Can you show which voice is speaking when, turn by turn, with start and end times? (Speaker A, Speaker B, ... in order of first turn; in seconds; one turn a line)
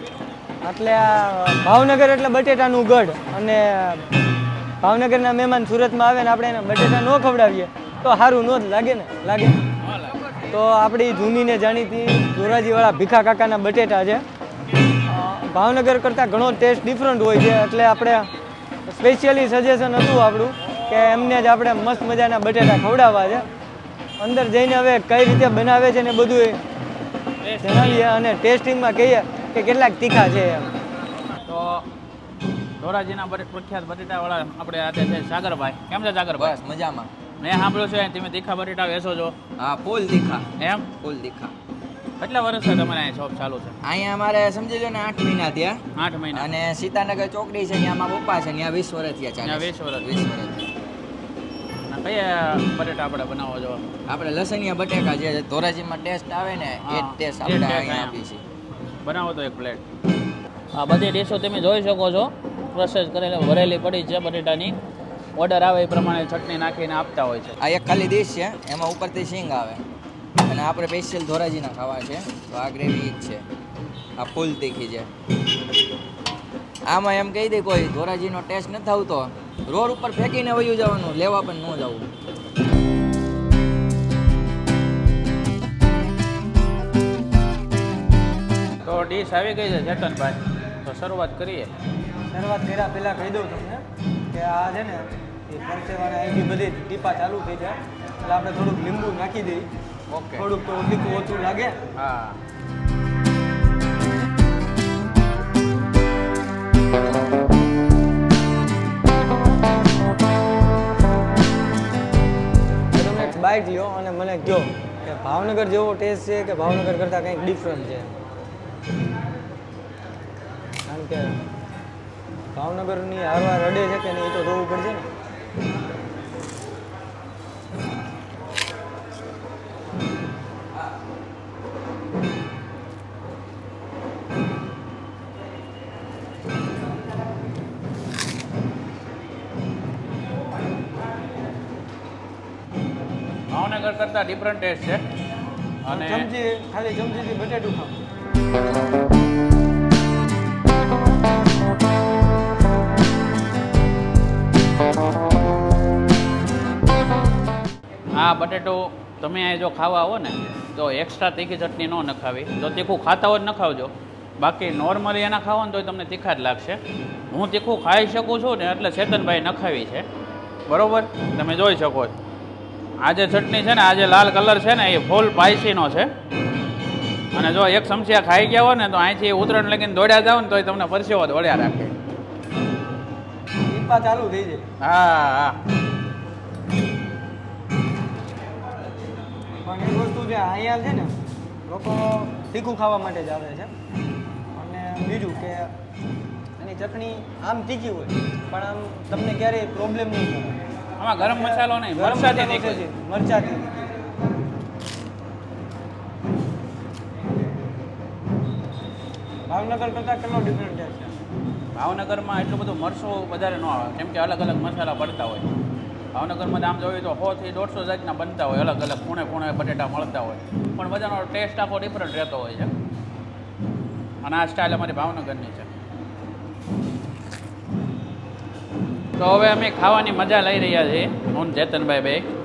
Speaker A: 0.6-4.0
Speaker A: 4.8-9.6
Speaker B: 9.8-10.2
Speaker A: 10.5-14.2
Speaker A: 15.0-18.3
Speaker A: 18.9-23.4
Speaker A: 24.2-26.6
Speaker B: 27.4-28.1
Speaker A: 27.6-30.8
Speaker B: 31.4-31.9
Speaker B: 32.8-36.6
Speaker C: 36.4-37.1
Speaker B: 37.4-39.4
Speaker C: 39.6-41.5
Speaker B: 40.6-40.9
Speaker B: 42.2-43.8
Speaker C: 43.8-45.8
Speaker B: 46.0-46.5
Speaker C: 46.3-50.7
Speaker B: 49.4-50.1
Speaker B: 51.9-53.8
Speaker C: 54.1-58.4
Speaker B: 56.8-58.2
Speaker B: 59.0-59.8
Speaker B: 60.7-64.8
Speaker B: 65.3-67.6
Speaker C: 67.6-69.8
Speaker C: 70.4-73.4
Speaker C: 74.2-75.1
Speaker C: 76.8-82.1
Speaker B: 88.8-91.7
Speaker A: 92.3-99.7
Speaker B: 100.1-100.5
Speaker A: 100.3-101.8
Speaker B: 101.9-102.4
Speaker A: 112.9-118.1
Speaker A: 120.9-121.4
Speaker A: 122.5-125.1
Speaker B: 143.5-145.0
Speaker B: 145.8-146.3
Speaker A: 145.9-147.9
Speaker B: 158.2-166.8
Speaker B: 167.3-170.1
Speaker B: 170.7-172.1
Speaker B: 173.0-176.1
Speaker B: 177.3-181.9
Speaker A: 183.7-184.6
Speaker B: 184.8-185.6
Speaker A: 189.6-191.1
Speaker A: 191.7-193.7
Speaker A: 194.5-195.7
Speaker A: 196.6-200.6
Speaker B: 201.0-202.8
Speaker A: 201.2-203.9
Speaker A: 209.5-211.2
Speaker B: 211.7-215.4
Speaker B: 216.1-222.7
Speaker B: 224.2-225.7
Speaker B: 229.2-232.3